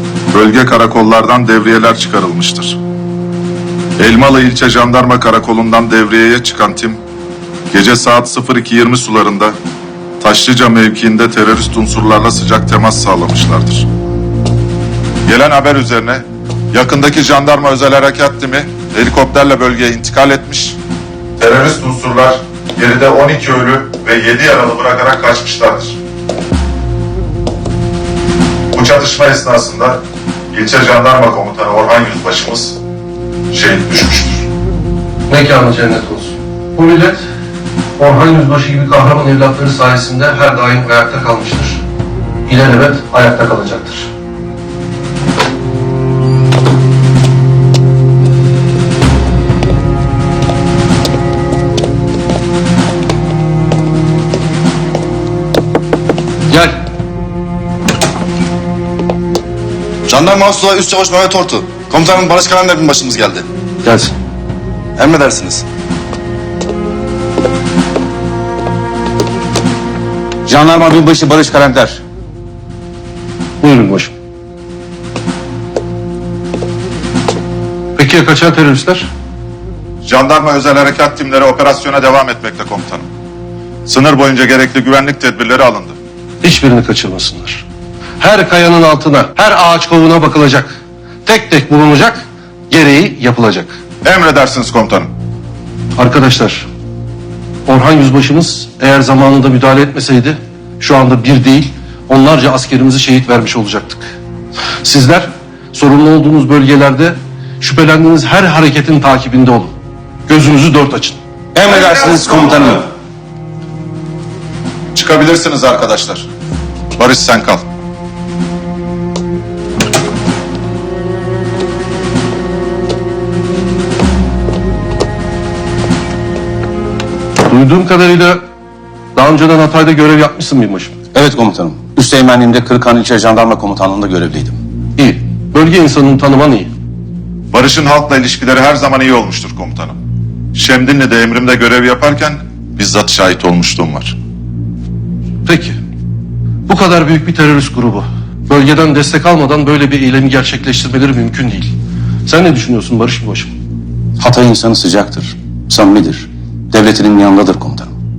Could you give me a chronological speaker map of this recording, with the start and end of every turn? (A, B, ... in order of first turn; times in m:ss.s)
0:00.3-0:02.8 A
0:04.0-0:07.0 A
0:07.7-0:09.6 A
0:10.2-0:13.9 A
0:15.2-0:20.8 A
0:21.4-0:26.0 A
0:28.7-0:30.0 A
0:30.5-0:32.8 A
0:33.5-0:34.4 A
0:35.3-0:37.2 B
0:38.0-0:41.8 B
0:42.5-0:44.1 B
0:56.5-0:56.8 B
1:00.1-1:03.5 C
1:03.8-1:04.1 B
1:05.0-1:05.6 C
1:10.4-1:12.0 D
1:13.6-1:14.1 B
1:18.0-1:19.1 B
1:20.0-1:23.1 A
1:23.8-1:26.0 A
1:26.4-1:27.6 B
1:28.2-1:30.7 B
1:31.2-1:33.8 B
1:34.0-1:35.1 A
1:36.0-1:36.7 B
1:37.6-1:44.1 B
1:44.8-1:49.8 B
1:50.3-1:51.2 B
1:51.5-1:52.9 D
1:54.9-1:56.3 A
1:57.0-1:57.6 A
2:07.5-2:08.4 B
2:09.2-2:10.9 B
2:11.1-2:14.6 D
2:15.0-2:16.7 B
2:17.5-2:20.0 A
2:20.5-2:24.2 A
2:25.4-2:25.8 B
2:26.7-2:31.7 B
2:32.2-2:33.5 B
2:34.2-2:37.9 D